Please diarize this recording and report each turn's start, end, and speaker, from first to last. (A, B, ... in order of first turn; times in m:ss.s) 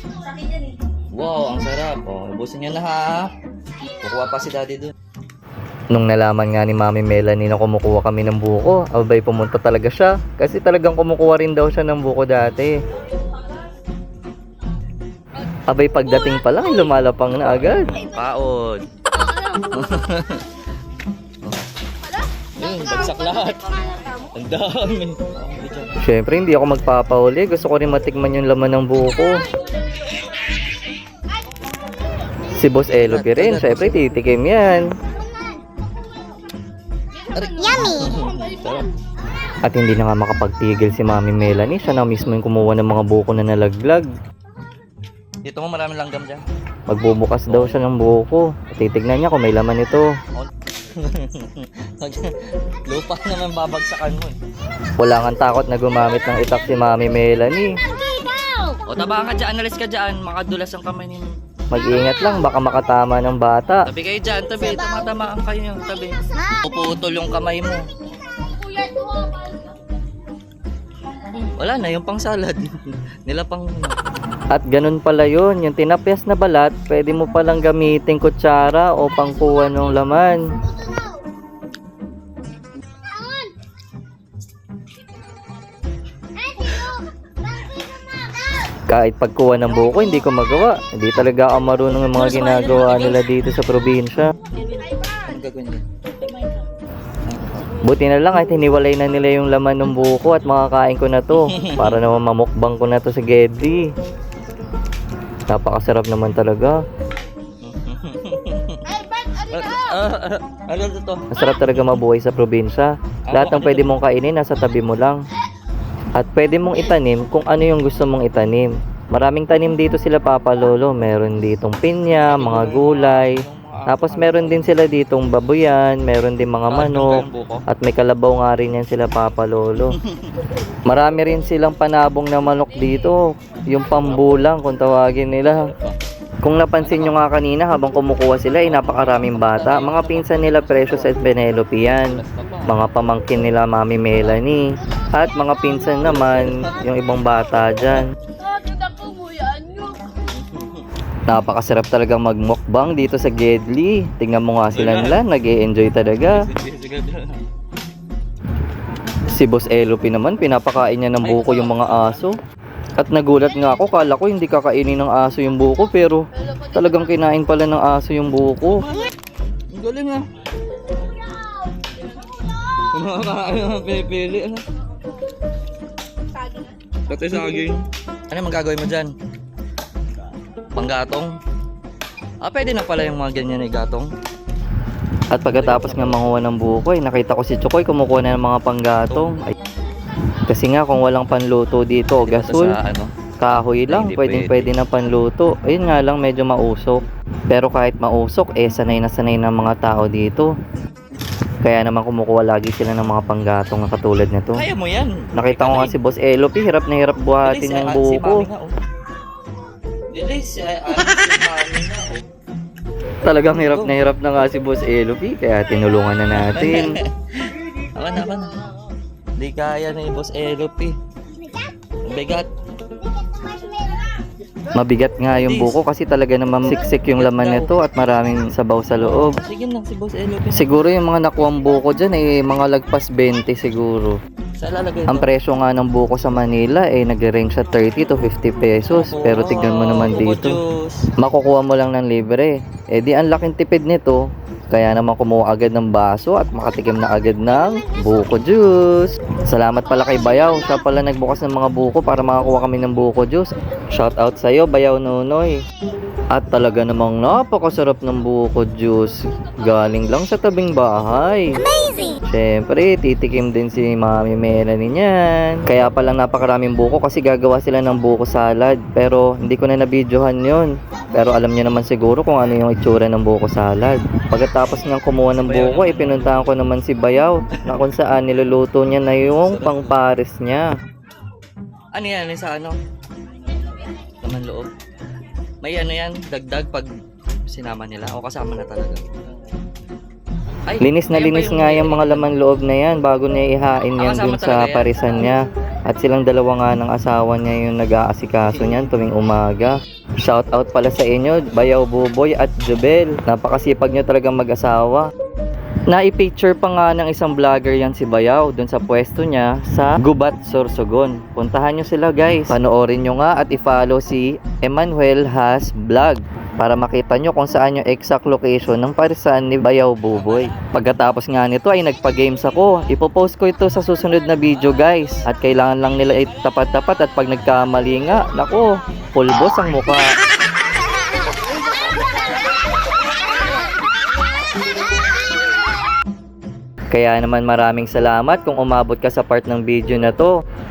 0:00.4-0:00.7 A
0:01.2-0:03.3 B
0:04.0-0:04.9 B
0:05.9-0:12.7 C
0:15.7-0:17.9 C
0:17.4-0:18.8 B
0:19.7-0:20.5 B
0:22.6-0:26.0 B
0:26.0-0:29.4 C
0:32.6-0:34.9 C
0:32.9-0:34.3 B
0:37.3-0:38.9 B
0:39.7-0:44.1 C
0:45.4-0:46.4 B
0:46.9-0:50.1 C
0:47.5-0:47.8 B
0:50.3-0:54.4 B
0:55.0-0:57.8 C
0:58.9-1:01.3 B
1:01.7-1:03.9 C
1:01.9-1:02.2 B
1:03.8-1:07.9 B
1:08.5-1:09.7 A
1:11.6-1:12.7 B
1:13.2-1:14.0 B
1:14.5-1:20.4 C
1:28.9-1:34.3 C
1:29.6-1:30.3 B
1:32.1-1:33.2 B
1:34.5-1:36.6 B
1:37.3-1:37.8 B
1:37.8-1:43.9 C
1:41.3-1:42.0 B
1:45.5-1:46.8 C
1:47.6-1:51.2 B
1:51.3-1:55.2 C
1:53.2-1:53.9 B
1:56.2-2:10.0 C
2:02.2-2:04.9 B
2:06.7-2:07.6 B
2:09.9-2:10.4 B
2:10.9-2:15.7 C
2:13.9-2:14.4 B
2:15.5-2:16.0 B
2:16.4-2:28.1 C
2:16.8-2:17.2 B
2:18.6-2:21.2 B
2:21.8-2:22.8 B
2:26.0-2:26.7 B
2:28.5-2:30.0 A
2:30.3-2:30.9 B
2:31.3-2:36.4 C
2:34.7-2:35.2 B
2:36.0-2:37.4 B
2:39.3-2:42.3 C
2:41.2-2:42.2 B
2:43.0-2:48.8 C
2:48.7-2:49.1 B
2:49.7-2:50.2 B
2:52.8-2:54.6 B
2:57.1-2:59.1 B
3:00.7-3:01.3 B
3:02.4-3:04.1 B
3:05.3-3:09.4 C
3:05.5-3:06.4 B
3:09.1-3:09.5 B
3:10.5-3:12.7 C
3:12.2-3:13.1 B
3:13.4-3:20.5 C
3:13.9-3:14.8 B
3:21.6-3:24.6 C
3:24.5-3:25.9 B
3:25.4-3:28.5 C
3:27.4-3:28.8 B
3:30.1-3:32.2 B
3:33.2-3:36.9 C
3:33.5-3:34.0 B
3:36.3-3:38.5 B
3:39.4-3:41.0 B
3:42.0-3:42.5 B
3:44.7-3:49.4 C
3:45.3-3:45.8 B
3:47.0-3:47.7 B
3:49.0-3:50.8 B
3:50.5-3:54.2 C
3:54.6-3:55.3 B
3:55.1-4:00.6 C
3:58.8-4:01.0 B
4:01.2-4:15.5 C
4:16.3-4:21.6 C
4:22.3-4:40.7 C
4:35.4-4:36.5 B
4:37.6-4:37.8 B
4:39.2-4:40.0 B
4:41.9-4:42.8 B
4:43.5-4:44.7 B
4:45.6-4:46.9 B
4:47.5-4:49.0 B
4:50.7-4:52.3 B
4:50.8-5:05.1 C
4:54.0-4:55.3 B
4:58.4-4:58.9 B
5:05.9-5:30.0 C
5:20.1-5:20.8 B
5:36.9-5:40.3 C